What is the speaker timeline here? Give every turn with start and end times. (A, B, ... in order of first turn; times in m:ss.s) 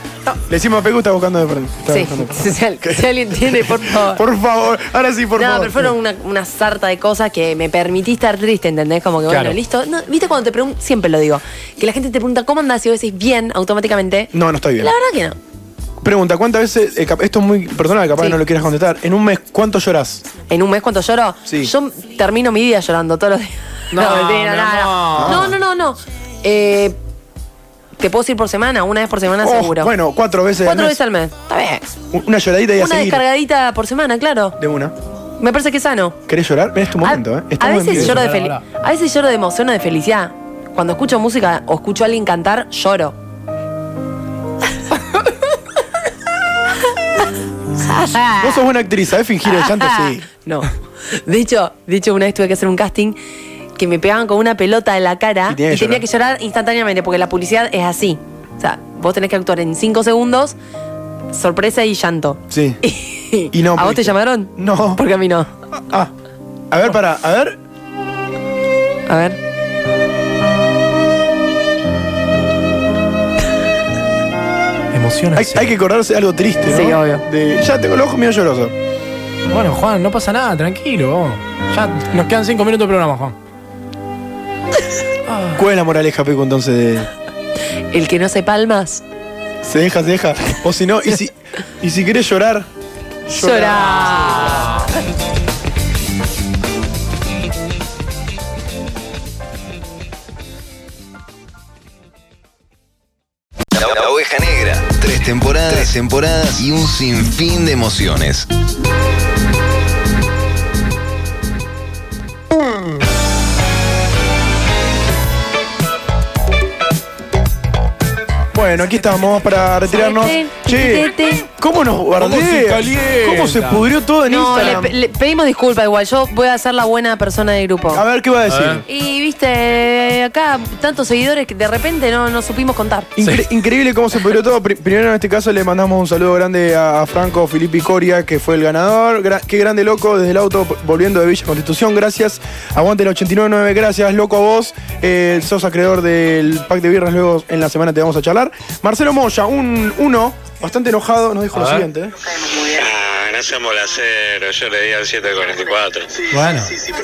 0:00.4-0:05.9 A
0:01.9-0:04.2 B
0:05.4-0:15.4 B
0:09.3-0:09.6 C
0:14.3-0:14.9 A
0:16.0-0:20.2 A
0:20.5-0:27.0 B
0:21.5-0:21.7 A
0:23.9-0:25.5 C
0:25.1-0:25.5 A
0:28.0-0:29.9 B
0:29.4-0:31.0 A
0:30.6-0:31.8 B
0:32.1-0:33.2 A
0:32.8-0:34.6 B
0:34.6-0:34.9 A
0:35.4-0:36.2 B
0:36.3-0:38.2 A
0:37.0-0:43.2 B
0:37.9-0:38.6 C
0:47.8-0:48.6 B
0:48.4-0:50.2 A
0:49.4-0:53.2 B
0:53.8-1:00.6 B
0:55.5-0:56.0 A
1:01.3-1:05.5 B
1:02.5-1:02.8 A
1:03.5-1:05.0 A
1:06.7-1:07.6 A
1:09.1-1:09.4 B
1:14.9-1:15.7 C
1:15.4-1:18.7 A
1:16.7-1:17.2 B
1:19.5-1:23.3 C
1:25.3-1:25.6 C
1:25.5-1:27.1 A
1:27.9-1:29.0 B
1:29.6-1:32.7 A
1:33.3-1:34.4 A
1:33.3-1:34.8 B
1:33.6-1:34.9 C
1:43.8-1:48.5 D
1:58.5-2:04.9 A
1:59.9-2:01.4 B
2:02.2-2:03.8 C
2:04.3-2:08.0 B
2:07.9-2:08.8 A
2:08.5-2:08.8 C
2:08.9-2:13.1 B
2:13.2-2:32.1 A
2:31.5-2:31.9 C
2:32.7-2:36.1 E
2:36.3-2:36.7 C